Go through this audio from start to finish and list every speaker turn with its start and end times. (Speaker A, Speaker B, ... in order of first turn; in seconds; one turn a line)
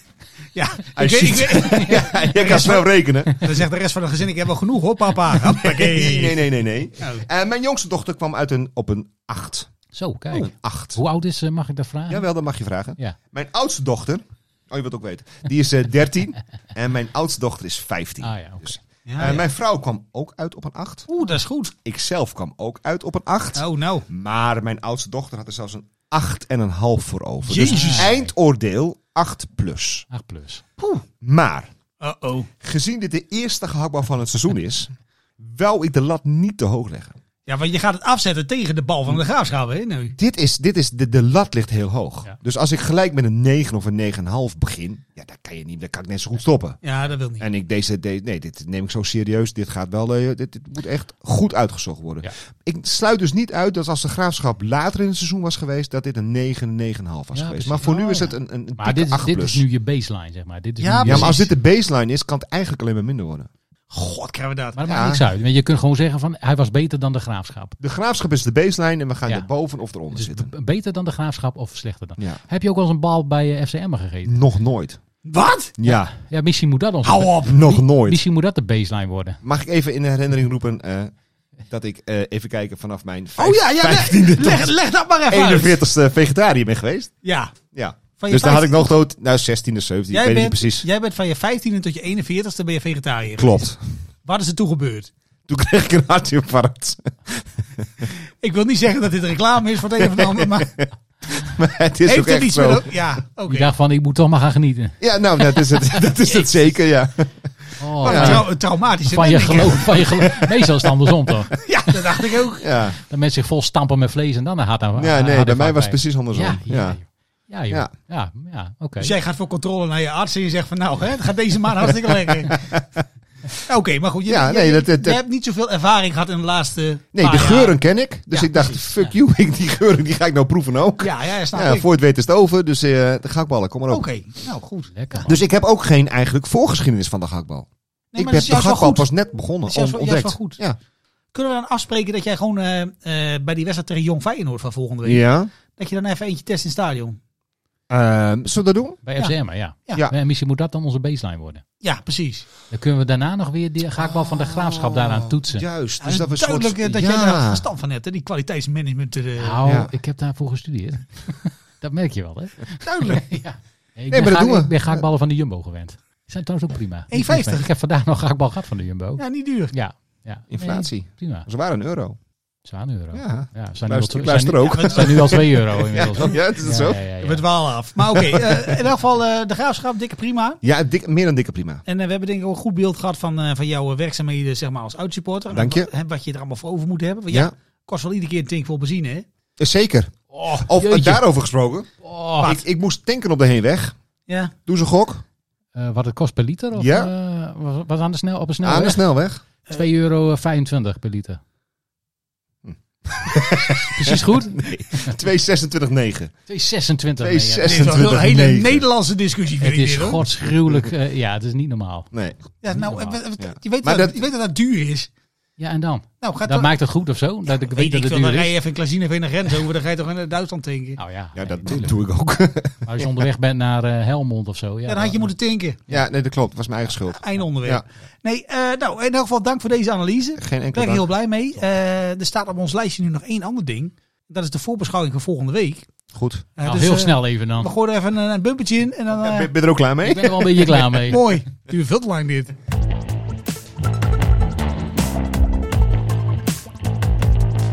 Speaker A: 0.5-2.9
Speaker B: 0.9-3.4
Speaker C: 1.7-2.4
Speaker A: 3.4-6.4
Speaker B: 5.5-9.7
Speaker A: 7.0-7.2
Speaker C: 9.9-12.2
Speaker B: 10.3-11.0
Speaker B: 12.1-21.1
Speaker C: 18.2-18.8
Speaker A: 19.1-19.4
Speaker A: 21.1-21.7
Speaker B: 21.8-30.1
Speaker A: 23.5-24.0
Speaker A: 27.4-28.1
Speaker C: 27.6-28.3
Speaker C: 30.1-30.6
Speaker B: 30.8-31.7
Speaker A: 32.0-32.5
Speaker B: 32.6-37.2
Speaker A: 37.5-40.1
Speaker B: 40.2-46.8
Speaker A: 46.8-47.5
Speaker B: 47.4-59.6
Speaker C: 57.3-61.5
Speaker A: 60.8-61.5
Speaker B: 61.0-63.5
Speaker A: 63.9-64.8
Speaker C: 64.7-67.8
Speaker B: 64.8-65.2
Speaker B: 67.8-70.5
Speaker C: 70.1-74.4
Speaker B: 74.2-75.0
Speaker A: 75.2-75.8
Speaker B: 75.8-76.1
Speaker C: 75.9-79.4
Speaker A: 77.0-77.7
Speaker B: 77.4-78.2
Speaker B: 79.4-81.1
Speaker B: 81.7-84.7
Speaker A: 83.4-85.8
Speaker B: 85.3-87.1
Speaker A: 87.2-87.5
Speaker B: 87.7-90.8
Speaker A: 88.2-88.9
Speaker A: 90.1-93.7
Speaker B: 93.4-93.8
Speaker A: 94.2-95.1
Speaker B: 95.5-98.1
Speaker A: 98.4-100.7
Speaker B: 100.0-103.0
Speaker A: 102.0-103.7
Speaker C: 103.5-105.0
Speaker B: 105.0-108.4
Speaker C: 107.8-111.6
Speaker A: 108.0-110.4
Speaker A: 111.5-112.7
Speaker B: 112.6-113.0
Speaker C: 113.0-119.1
Speaker B: 115.0-117.0
Speaker A: 119.0-122.8
Speaker B: 122.5-123.0
Speaker A: 123.6-127.8
Speaker B: 124.3-125.2
Speaker B: 127.1-134.1
Speaker A: 128.3-128.7
Speaker A: 131.0-131.9
Speaker A: 133.9-135.2
Speaker C: 134.9-135.4
Speaker B: 135.2-140.8
Speaker A: 138.1-140.6
Speaker A: 141.3-147.2
Speaker B: 145.0-145.5
Speaker B: 147.9-149.0
Speaker C: 149.0-151.6
Speaker A: 151.8-152.4
Speaker C: 152.7-155.6
Speaker B: 153.9-157.6
Speaker A: 156.0-159.6
Speaker C: 159.4-171.5
Speaker B: 159.6-159.9
Speaker A: 162.8-163.3
Speaker B: 164.1-165.0
Speaker A: 167.1-167.7
Speaker A: 169.2-169.7
Speaker B: 170.5-172.2
Speaker C: 172.7-177.4
Speaker B: 173.1-177.0
Speaker A: 174.6-175.4
Speaker A: 177.2-180.6
Speaker B: 178.1-178.8
Speaker B: 180.6-181.8
Speaker A: 181.8-189.2
Speaker B: 185.5-185.9
Speaker B: 189.6-193.9
Speaker C: 190.4-191.2
Speaker C: 192.0-192.5
Speaker A: 194.3-194.5
Speaker B: 194.7-195.2
Speaker C: 195.7-199.1
Speaker B: 196.7-197.1
Speaker B: 198.6-199.4
Speaker C: 199.7-201.4
Speaker B: 202.6-206.3
Speaker C: 203.8-205.2
Speaker C: 206.5-208.0
Speaker B: 207.2-208.8
Speaker A: 207.6-210.2
Speaker C: 209.6-212.1
Speaker B: 210.7-210.9
Speaker B: 212.1-212.4
Speaker A: 212.6-215.1
Speaker C: 212.7-213.2
Speaker B: 213.4-214.2
Speaker C: 215.6-218.5
Speaker A: 216.2-216.7
Speaker A: 217.5-221.0
Speaker C: 221.0-222.0
Speaker B: 221.3-223.2
Speaker C: 222.8-225.3
Speaker A: 224.9-225.8
Speaker B: 225.9-227.8
Speaker A: 227.0-235.9
Speaker B: 230.4-231.1
Speaker B: 236.1-236.4
Speaker A: 236.6-239.5
Speaker C: 236.6-237.7
Speaker B: 239.1-240.7
Speaker C: 240.0-241.2
Speaker A: 240.7-242.5